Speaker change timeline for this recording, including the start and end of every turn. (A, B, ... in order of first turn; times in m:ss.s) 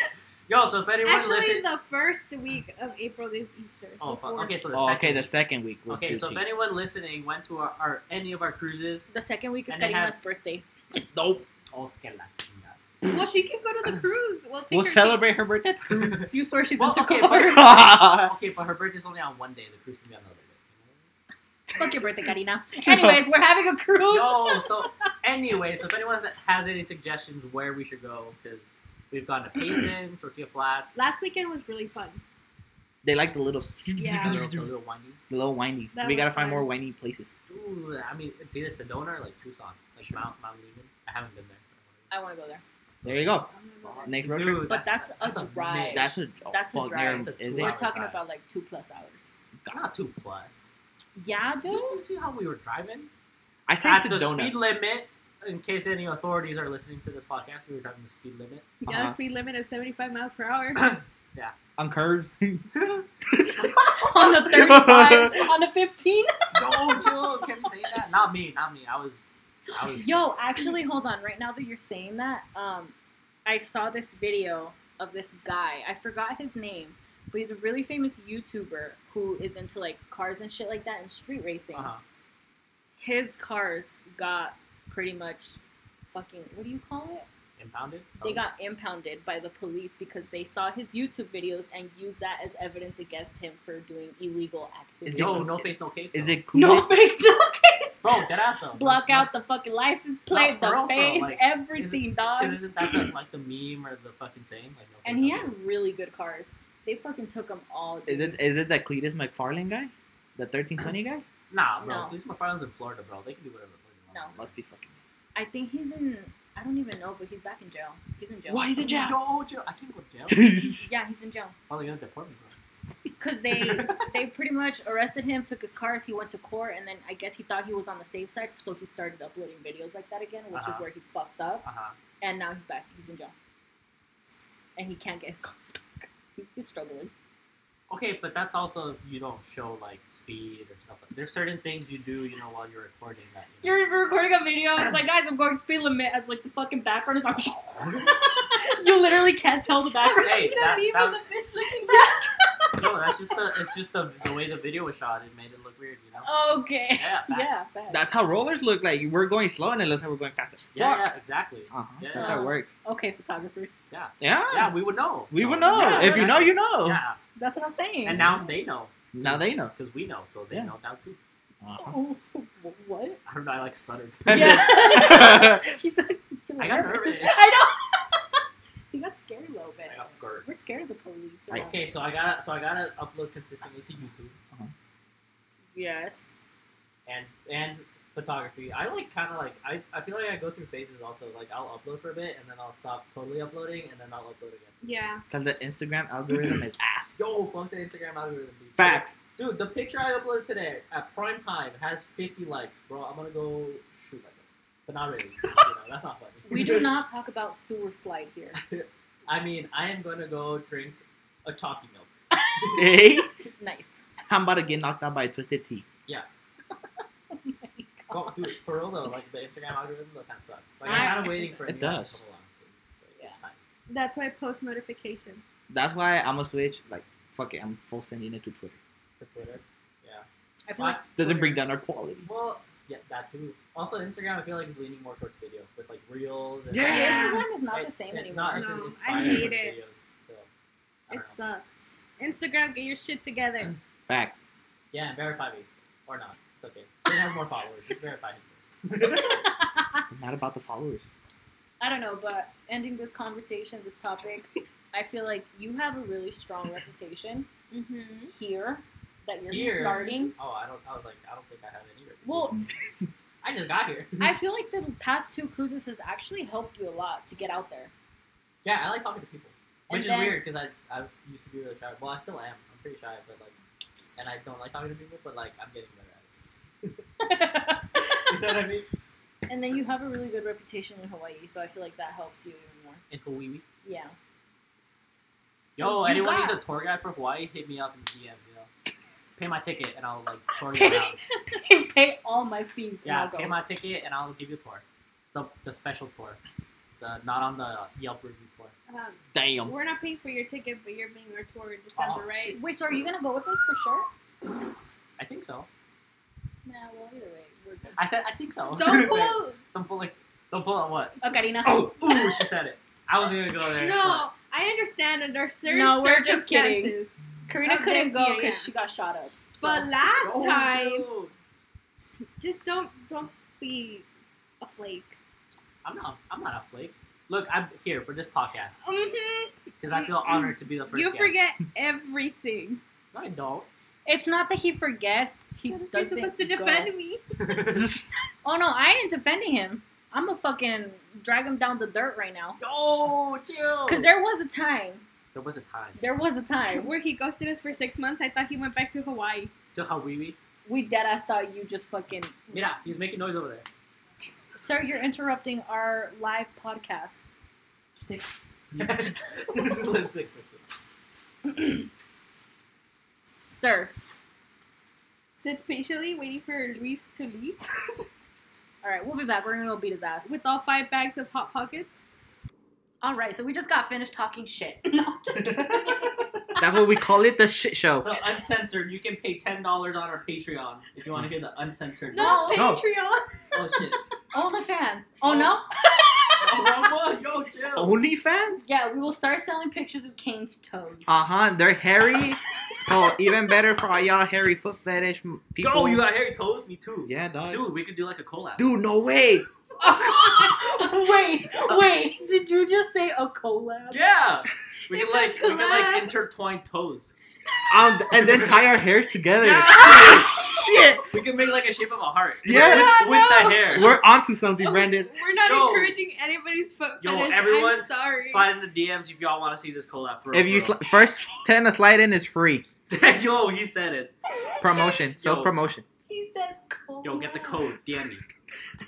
0:00.5-0:01.7 A
0:01.0-0:04.6 B
0:04.0-0:05.3 A
0:04.7-0:06.4 C
0:05.9-0:09.1 A
0:09.1-0:10.6 D
0:09.7-0:10.2 A
0:11.1-0:11.4 C
0:11.7-0:12.8 A
0:13.0-0:15.3 B
0:14.7-0:16.3 C
0:15.9-0:21.1 A
0:16.3-0:17.8 D
0:17.5-0:18.3 C
0:21.7-0:22.0 C
0:21.8-0:24.9 D
0:22.8-0:23.2 C
0:24.1-0:31.0 A
0:31.0-0:32.2 B
0:33.0-0:34.7 C
0:34.0-0:34.4 B
0:34.1-0:35.3 A
0:35.3-0:37.3 C
0:35.9-0:36.7 B
0:37.5-0:42.1 A
0:42.1-0:42.6 D
0:43.0-0:46.2 A
0:43.0-0:43.5 C
0:43.5-0:44.2 B
0:44.0-0:44.7 C
0:44.6-0:49.3 D
0:45.9-0:47.8 C
0:47.1-0:48.2 A
0:49.7-0:50.7 A
0:51.2-0:52.0 D
0:51.7-0:53.1 A
0:53.7-0:54.6 C
0:53.8-0:58.7 A
0:58.8-1:01.0 B
0:58.9-0:59.2 C
1:00.8-1:01.6 A
1:01.8-1:05.5 C
1:04.0-1:06.3 D
1:06.5-1:10.3 A
1:09.9-1:12.9 D
1:13.5-1:21.9 D
1:21.7-1:22.0 A
1:23.0-1:25.6 D
1:26.1-1:27.3 D
1:27.6-1:28.4 A
1:28.2-1:35.5 D
1:35.0-1:37.0 C
1:35.1-1:36.4 A
1:36.5-1:38.2 D
1:38.0-1:39.3 A
1:38.7-1:43.1 D
1:40.3-1:45.6 A
1:45.0-1:48.4 D
1:48.1-1:51.2 C
1:51.5-1:54.5 A
1:51.8-1:52.2 D
1:54.4-1:55.0 C
1:55.4-1:59.1 D
1:58.5-1:59.2 C
1:58.8-2:00.6 A
2:00.3-2:00.9 C
2:00.8-2:01.6 D
2:01.7-2:02.6 A
2:03.2-2:11.6 D
2:03.5-2:04.1 A
2:10.5-2:10.9 A
2:11.6-2:12.0 A
2:12.2-2:13.3 D
2:14.8-2:17.1 D
2:17.9-2:23.8 A
2:23.6-2:30.7 D
2:27.8-2:28.1 A
2:30.0-2:32.3 B
2:30.2-2:31.2 A
2:31.8-2:32.9 D
2:32.8-2:37.5 A
2:36.2-2:38.1 D
2:37.9-2:41.1 C
2:40.7-2:42.4 A
2:41.7-2:42.7 C
2:42.1-2:43.8 D
2:43.9-2:47.2 A
2:44.2-2:44.8 C
2:45.3-2:47.0 C
2:45.7-2:46.5 D
2:47.4-2:48.3 D
2:48.0-2:51.2 A
2:49.1-2:49.7 C
2:51.6-2:52.0 C
2:51.8-2:53.2 D
2:53.3-2:54.7 A
2:54.3-2:55.7 C
2:54.3-2:58.4 D
2:56.6-2:57.5 A
2:58.9-3:01.9 D
2:59.9-3:00.5 A
3:01.5-3:04.4 A
3:05.8-3:06.2 D
3:07.1-3:14.8 A
3:14.8-3:15.2 B
3:15.3-3:17.2 C
3:17.2-3:26.9 A
3:18.8-3:19.2 C
3:26.5-3:28.6 D
3:28.6-3:32.9 A
3:32.3-3:34.0 D
3:32.8-3:33.3 C
3:34.3-3:35.8 C
3:37.3-3:38.4 D
3:38.1-3:43.6 A
3:40.8-3:41.7 D
3:40.9-3:42.2 C
3:43.9-3:45.4 B
3:45.7-3:48.8 C
3:49.2-3:50.3 A
3:50.7-3:51.5 D
3:50.8-3:51.3 A
3:51.2-3:52.3 C
3:52.2-4:00.5 A
3:56.7-3:57.4 C
3:56.8-3:58.7 D
3:56.9-3:57.4 B
3:58.5-3:59.8 B
3:59.1-3:59.5 C
4:01.1-4:01.4 A
4:01.1-4:01.7 B
4:02.2-4:03.8 B
4:04.1-4:04.4 C
4:04.9-4:09.4 A
4:09.0-4:10.0 D
4:10.1-4:11.1 C
4:11.8-4:17.5 D
4:17.7-4:18.3 B
4:18.3-4:20.3 D
4:19.5-4:22.6 A
4:19.5-4:20.3 B
4:22.2-4:22.7 D
4:23.4-4:24.4 A
4:24.2-4:27.9 D
4:28.6-4:33.6 A
4:29.9-4:30.4 D
4:34.2-4:36.3 A
4:37.2-4:38.3 D
4:38.3-4:38.9 A
4:39.5-4:43.0 D
4:43.1-4:43.6 A
4:43.8-4:44.2 D
4:45.8-4:48.7 A
4:45.8-4:46.6 D
4:49.4-4:51.2 A
4:50.7-4:53.6 D
4:53.0-4:54.8 A
4:55.3-4:56.4 A
4:57.0-4:58.7 A
4:58.9-5:02.6 B
4:59.4-4:59.8 C
5:02.0-5:02.3 A
5:02.3-5:04.1 D
5:05.2-5:05.7 A
5:06.6-5:08.0 D
5:08.0-5:14.3 A
5:08.8-5:09.6 B
5:11.2-5:12.2 D
5:13.7-5:17.1 B
5:15.7-5:17.0 D
5:17.5-5:19.9 D
5:17.6-5:18.7 B
5:19.6-5:21.1 B
5:20.2-5:21.3 A
5:22.4-5:24.1 B
5:24.6-5:25.2 B
5:25.8-5:28.8 A
5:28.8-5:32.8 B
5:29.8-5:31.4 A
5:33.1-5:33.7 A
5:34.1-5:36.9 D
5:35.6-5:37.2 B
5:37.4-5:38.0 A
5:37.7-5:38.1 C
5:38.4-5:42.6 D
5:42.6-5:44.1 A
5:43.9-5:45.0 D
5:45.3-5:46.0 A
5:46.0-5:46.9 D
5:46.7-5:49.5 B
5:49.7-5:50.4 A
5:50.7-5:52.6 D
5:52.5-5:53.7 A
5:54.6-5:57.3 D
5:58.0-5:58.4 D
5:58.7-6:00.6 A
6:01.4-6:01.9 D
6:03.5-6:03.9 D
6:05.4-6:08.1 B
6:08.8-6:10.3 D
6:10.2-6:11.9 B
6:13.0-6:16.3 D
6:15.4-6:16.3 A
6:16.6-6:18.1 C
6:18.0-6:22.5 A
6:22.1-6:23.8 B
6:22.2-6:22.7 D
6:22.5-6:22.8 C
6:23.5-6:24.0 A
6:24.3-6:26.6 D
6:25.2-6:25.6 A
6:26.4-6:28.0 A
6:27.8-6:28.6 C
6:28.6-6:31.1 D
6:31.1-6:36.0 C
6:35.6-6:38.7 A
6:37.1-6:37.6 C
6:38.6-6:39.5 C
6:39.8-6:44.0 D
6:43.9-6:47.1 A
6:44.9-6:46.1 B
6:47.7-6:51.0 C
6:49.4-6:50.5 A
6:51.1-6:54.0 A
6:52.4-6:55.1 C
6:52.4-6:54.0 B
6:54.6-6:58.5 B
6:55.4-6:56.0 A
6:57.0-7:00.8 A
7:00.3-7:02.6 C
7:02.9-7:04.1 A
7:04.6-7:05.8 C
7:05.2-7:05.5 A
7:06.1-7:07.6 D
7:07.0-7:08.2 A